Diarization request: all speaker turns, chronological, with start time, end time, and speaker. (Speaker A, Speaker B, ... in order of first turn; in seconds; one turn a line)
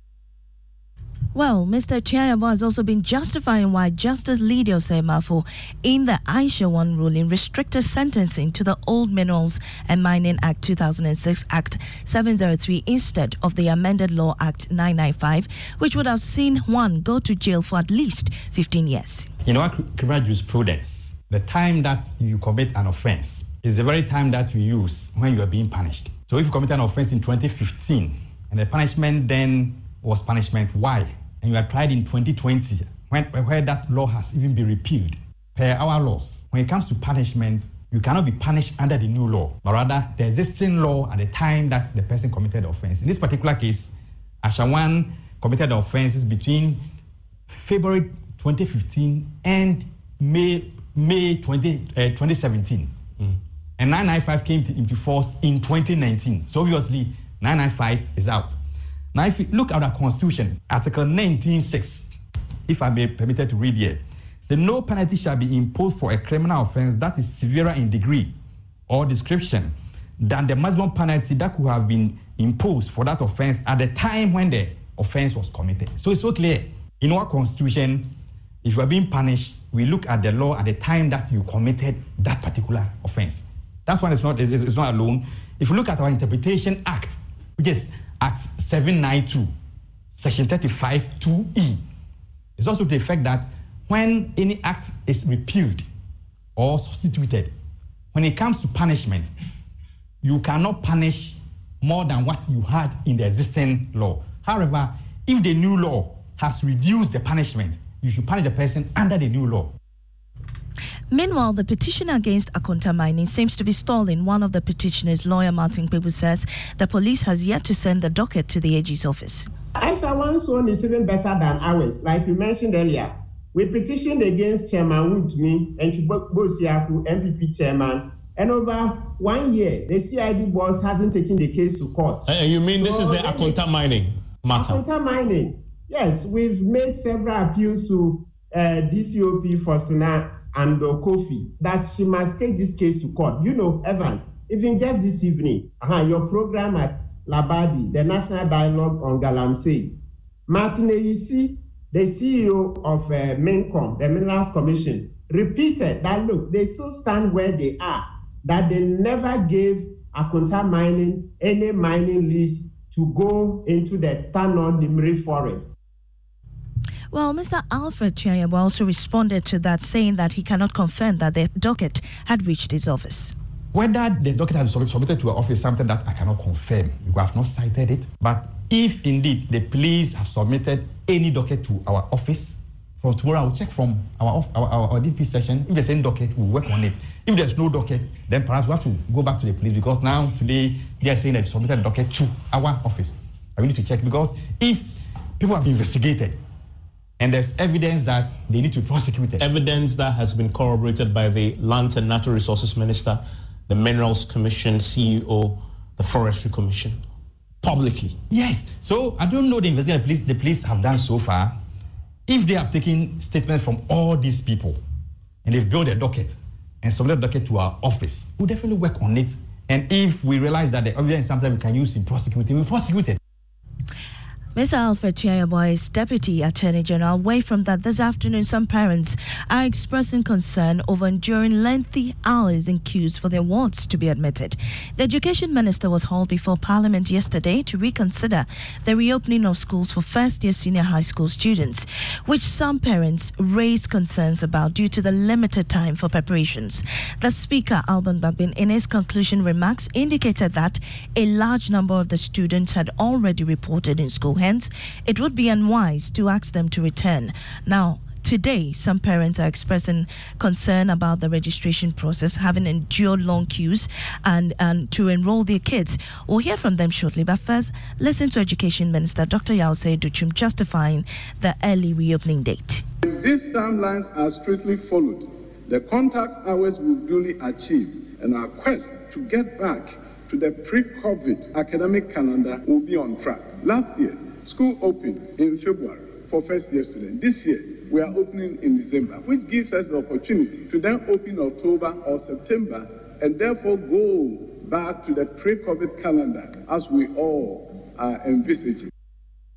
Speaker A: 1.3-19.3
Speaker B: 19.4-43.9
Speaker B: 44.4-46.9
Speaker B: 47.5-52.9
Speaker B: 53.8-58.6
Speaker B: 59.1-62.1
Speaker B: 62.7-68.3
Speaker B: 68.9-78.1
Speaker B: 78.6-89.5
Speaker B: 90.1-91.8
Speaker B: 92.6-95.9
Speaker B: 96.6-97.5
Speaker B: 98.1-99.3
Speaker B: 100.2-109.7
Speaker A: 111.1-119.5
Speaker C: 119.8-133.6
Speaker D: 132.3-134.8
Speaker C: 134.5-150.0
Speaker C: 150.5-165.7
Speaker A: 167.1-173.3
Speaker B: 173.7-196.4
Speaker B: 197.2-199.5
Speaker D: 199.4-207.0
Speaker D: 207.6-208.2
Speaker B: 208.3-211.6
Speaker B: 212.3-214.8
Speaker B: 215.4-223.2
Speaker A: 224.6-272.9
Speaker E: 273.0-298.9